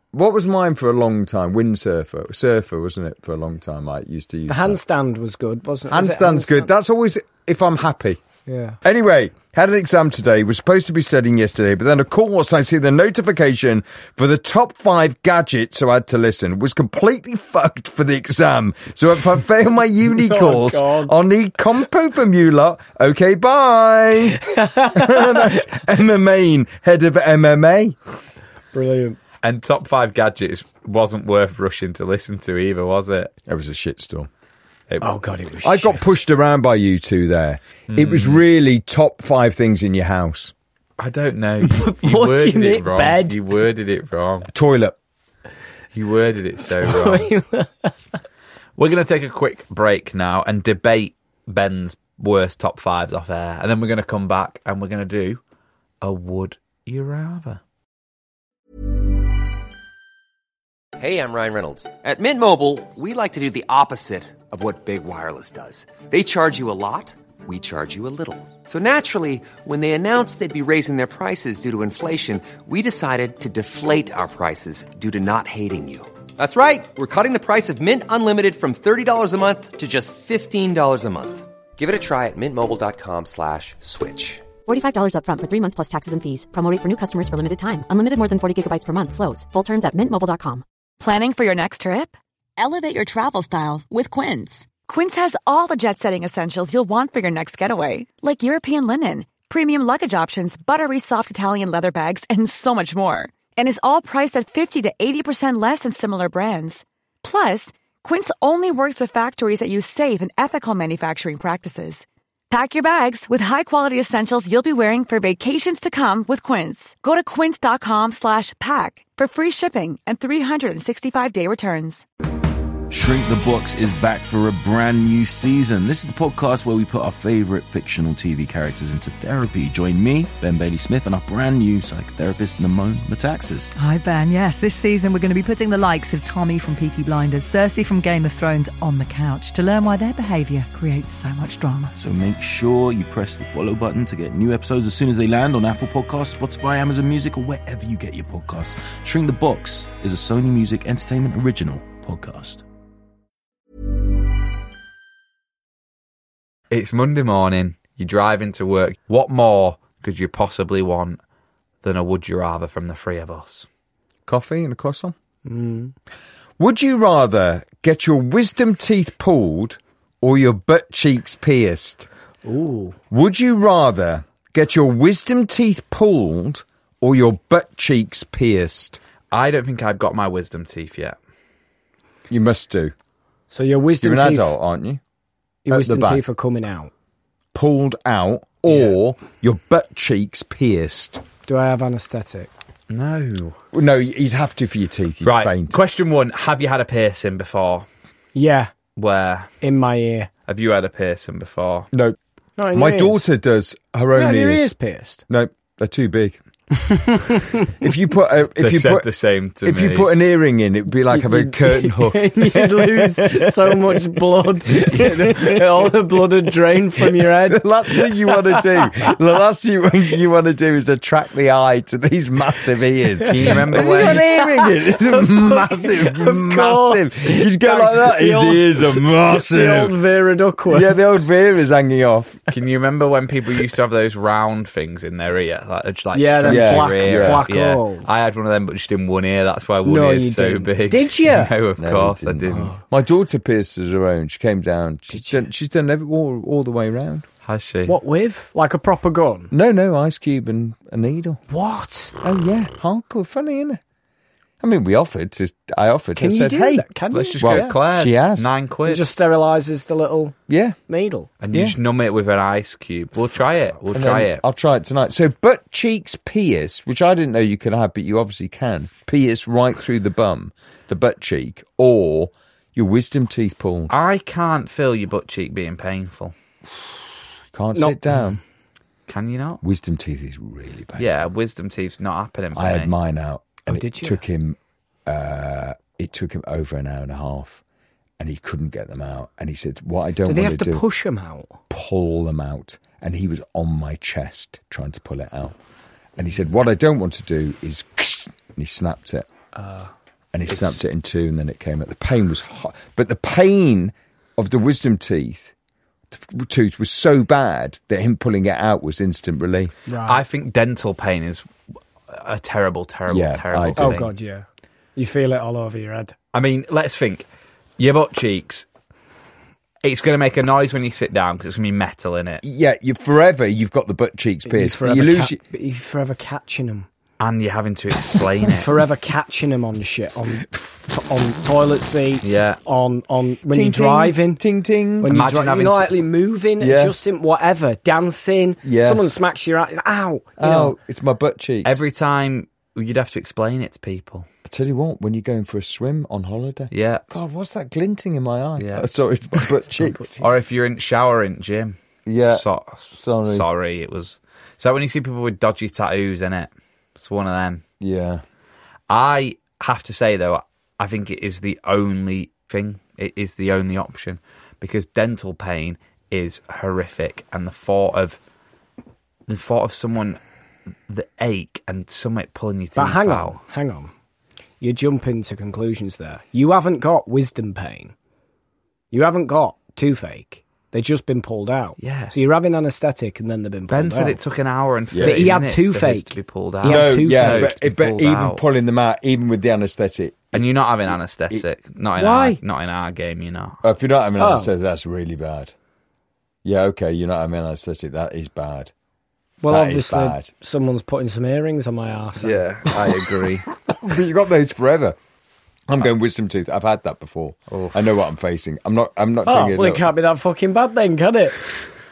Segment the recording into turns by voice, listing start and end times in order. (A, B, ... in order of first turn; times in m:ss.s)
0:00.1-0:04.8 A
0:04.5-0:06.7 B
0:05.9-0:08.2 A
0:08.5-0:08.8 B
0:08.8-0:28.0 A
0:20.1-0:21.1 B
0:24.4-0:25.5 B
0:28.7-0:29.2 B
0:29.4-0:33.3 C
0:33.4-0:34.3 A
0:35.0-0:36.2 B
0:35.6-0:40.5 A
0:37.9-0:38.4 C
0:41.0-0:44.5 C
0:41.6-0:43.4 B
0:44.5-0:45.0 A
0:45.9-0:47.3 C
0:46.7-0:48.0 B
0:48.8-0:55.4 C
0:56.0-0:57.6 C
1:01.0-1:24.5 D
1:24.6-1:30.6 E
1:31.0-2:02.0 F
2:02.9-2:13.7 G
2:13.8-2:21.9 H
2:22.0-2:32.6 G
2:36.7-2:41.2 C
2:41.8-2:43.7 C
2:44.3-2:45.1 A
2:45.4-2:45.9 B
2:46.6-2:52.1 A
2:52.4-2:53.0 B
2:53.1-2:59.0 A
2:59.3-3:01.2 C
3:02.3-3:02.9 A
3:03.5-3:04.5 B
3:04.0-3:05.0 A
3:05.6-3:06.9 B
3:05.7-3:06.2 A
3:07.5-3:11.2 A
3:11.4-3:12.5 B
3:12.9-3:13.6 C
3:13.7-3:15.8 A
3:15.2-3:17.8 C
3:18.3-3:18.7 B
3:19.0-3:19.5 C
3:19.6-3:20.3 B
3:20.5-3:21.9 C
3:21.9-3:22.2 A
3:22.6-3:23.3 B
3:22.7-3:24.7 A
3:24.1-3:25.2 B
3:25.3-3:26.4 A
3:26.8-3:27.7 B
3:27.8-3:29.1 A
3:28.6-3:30.1 C
3:29.6-3:34.0 A
3:31.1-3:39.1 B
3:35.0-3:35.5 A
3:37.2-3:50.0 A
3:43.2-3:51.0 B
3:43.3-3:44.3 C
3:50.7-3:52.4 A
3:52.5-4:02.7 C
3:56.1-3:58.1 B
3:56.4-3:57.5 A
3:59.8-4:01.5 B
4:01.8-4:07.3 A
4:02.5-4:02.8 B
4:05.1-4:05.4 B
4:07.4-4:08.0 C
4:07.8-4:09.5 B
4:09.5-4:11.4 A
4:11.5-4:12.1 B
4:12.2-4:13.8 A
4:14.6-4:16.9 A
4:16.2-4:17.8 B
4:17.1-4:19.1 C
4:17.4-4:18.5 A
4:18.9-4:20.4 B
4:20.5-4:20.8 A
4:20.9-4:21.3 B
4:21.4-4:24.4 C
4:23.9-4:33.9 A
4:33.9-4:36.3 C
4:37.5-4:38.4 A
4:37.7-4:38.4 B
4:39.1-4:39.6 C
4:39.6-4:41.3 A
4:41.0-4:42.9 C
4:42.5-4:47.6 A
4:43.6-4:44.2 B
4:48.2-4:50.8 A
4:50.2-4:51.6 B
4:51.7-4:55.6 A
4:56.2-4:59.3 A
4:59.5-4:59.9 B
5:00.3-5:05.5 A
5:06.1-5:09.7 A
5:09.9-5:10.2 B
5:10.0-5:11.4 C
5:12.1-5:14.1 C
5:13.1-5:14.0 A
5:13.8-5:16.1 B
5:16.3-5:17.3 C
5:17.8-5:18.6 C
5:19.8-5:22.4 C
5:22.4-5:25.4 A
5:24.4-5:26.9 B
5:27.2-5:28.8 C
5:28.5-5:34.4 B
5:32.2-5:32.6 C
5:33.5-5:35.3 A
5:35.0-5:40.7 B
5:35.1-5:35.9 C
5:36.6-5:36.9 A
5:38.6-5:39.0 A
5:40.4-5:41.8 A
5:41.6-5:44.3 C
5:44.4-5:50.1 A
5:46.7-5:47.0 C
5:48.6-5:48.8 C
5:49.7-5:50.3 B
5:50.2-5:51.8 C
5:52.0-5:53.4 A
5:52.3-5:57.6 C
5:57.8-5:58.2 A
5:58.9-6:08.2 C
6:09.3-6:10.2 C
6:10.9-6:13.4 C
6:12.7-6:13.9 B
6:14.6-6:17.9 B
6:18.9-6:24.2 B
6:21.8-6:22.1 C
6:23.7-6:28.4 C
6:24.9-6:25.3 A
6:25.0-6:27.6 B
6:26.6-6:30.4 A
6:30.3-6:33.6 C
6:32.0-6:32.4 B
6:33.6-6:35.5 A
6:34.2-6:34.5 B
6:36.4-6:38.7 A
6:39.4-6:42.4 B
6:39.5-6:40.3 A
6:42.2-6:45.0 A
6:42.2-6:43.4 C
6:45.7-6:49.9 A
6:47.5-6:47.8 C
6:49.2-6:51.4 B